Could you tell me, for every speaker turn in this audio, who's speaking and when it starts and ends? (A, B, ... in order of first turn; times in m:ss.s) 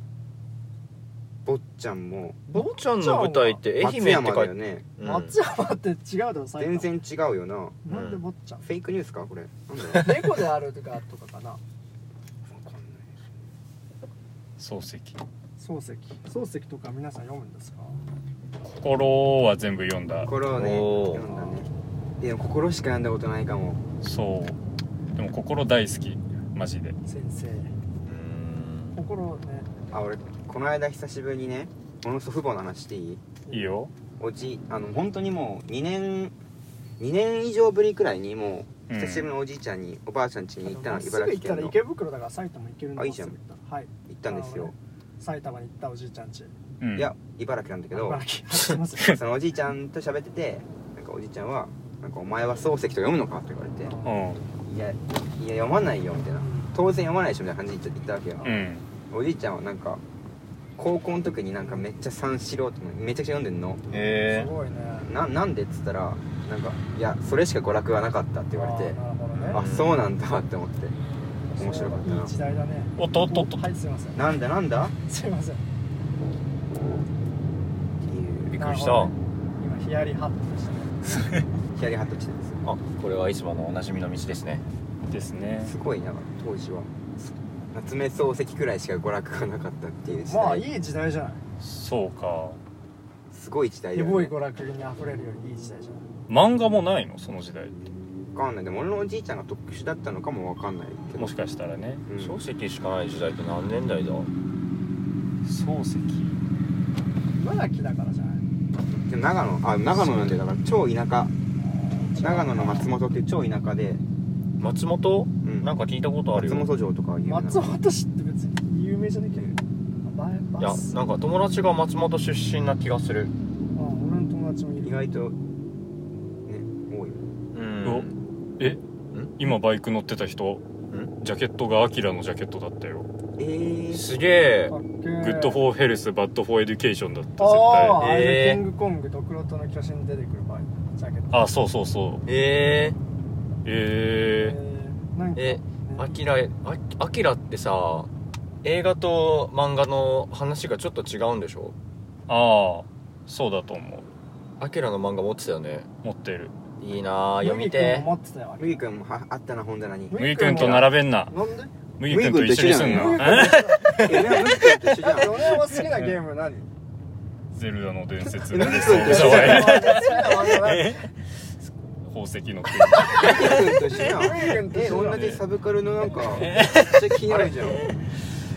0:01.4-0:02.4 A
0:02.5-0:03.6 B
0:02.5-0:05.4 C
0:03.8-0:04.9 A
0:05.0-0:06.9 B
0:06.6-0:07.8 A
0:07.8-0:08.6 B
0:07.9-0:08.2 C
0:08.6-0:10.4 A
0:09.9-0:11.6 B
0:12.5-0:13.1 A
0:14.6-0:15.2 D
0:15.6-0:18.0 B
0:18.8-0:20.3 D
0:20.2-0:21.7 A
0:20.5-0:21.3 C
0:22.2-0:23.8 A
0:24.0-0:24.6 D
0:25.1-0:27.0 D
0:27.0-0:27.7 B
0:28.0-0:29.0 C
0:28.9-0:29.8 B
0:29.9-0:33.2 A
0:33.5-0:33.7 B
0:33.5-0:33.9 D
0:34.2-0:36.3 A
0:37.0-0:41.8 A
0:38.9-0:39.3 D
0:40.6-0:46.5 B
0:43.0-0:43.4 A
0:44.1-0:44.7 A
0:46.8-0:47.1 D
0:46.9-0:48.2 A
0:47.9-0:49.2 B
0:49.0-0:53.9 A
0:53.8-0:54.2 B
0:54.0-0:54.4 D
0:54.6-0:58.5 A
0:56.4-0:56.7 B
0:58.4-0:58.8 D
0:59.1-1:00.0 A
1:00.8-1:03.8 A
1:03.9-1:04.5 C
1:04.2-1:05.1 B
1:05.0-1:09.0 A
1:08.5-1:09.6 B
1:09.4-1:10.0 C
1:09.5-1:11.0 A
1:11.5-1:14.3 B
1:11.6-1:12.3 A
1:13.0-1:13.6 D
1:14.1-1:14.9 A
1:15.0-1:15.7 B
1:18.0-1:18.5 A
1:18.5-1:19.1 C
1:18.6-1:21.2 B
1:21.0-1:22.6 A
1:22.6-1:24.6 C
1:25.1-1:25.7 D
1:25.6-1:30.6 A
1:30.1-1:31.4 B
1:31.6-1:32.6 D
1:33.3-1:34.3 A
1:33.9-1:36.0 B
1:36.3-1:37.8 D
1:38.3-1:41.3 A
1:41.2-1:42.0 D
1:42.1-1:42.4 A
1:42.2-1:44.3 C
1:45.4-1:46.4 D
1:47.3-1:48.4 B
1:48.9-1:51.3 A
1:50.0-1:50.3 C
1:51.6-1:52.9 B
1:52.2-1:54.0 A
1:54.6-1:56.7 C
1:55.4-1:55.7 A
1:56.3-1:57.7 A
1:57.2-2:00.9 B
2:00.6-2:03.3 C
2:03.7-2:05.0 B
2:04.8-2:05.4 A
2:06.4-2:07.2 A
2:07.5-2:08.2 C
2:07.8-2:08.8 D
2:09.4-2:10.6 D
2:11.2-2:13.1 D
2:13.4-2:14.0 A
2:13.9-2:14.7 C
2:14.7-2:15.6 B
2:15.2-2:18.0 D
2:17.4-2:21.4 B
2:18.0-2:18.6 C
2:21.3-2:22.2 D
2:22.2-2:23.0 C
2:23.6-2:24.6 D
2:24.4-2:26.1 B
2:25.4-2:28.1 C
2:28.6-2:31.7 C
2:32.3-2:34.1 D
2:34.6-2:35.9 C
2:36.0-2:36.5 D
2:36.8-2:38.1 C
2:37.4-2:38.8 B
2:38.6-2:40.9 A
2:40.1-2:41.7 B
2:40.1-2:41.3 D
2:42.0-2:44.2 D
2:42.0-2:45.4 A
2:42.6-2:44.1 B
2:45.0-2:46.7 B
2:47.5-2:51.1 D
2:48.5-2:50.0 A
2:48.6-2:51.0 B
2:52.0-2:53.7 D
2:53.0-2:53.5 B
2:53.1-2:57.8 A
2:54.0-2:55.3 B
2:55.0-2:55.4 D
2:56.3-2:57.9 C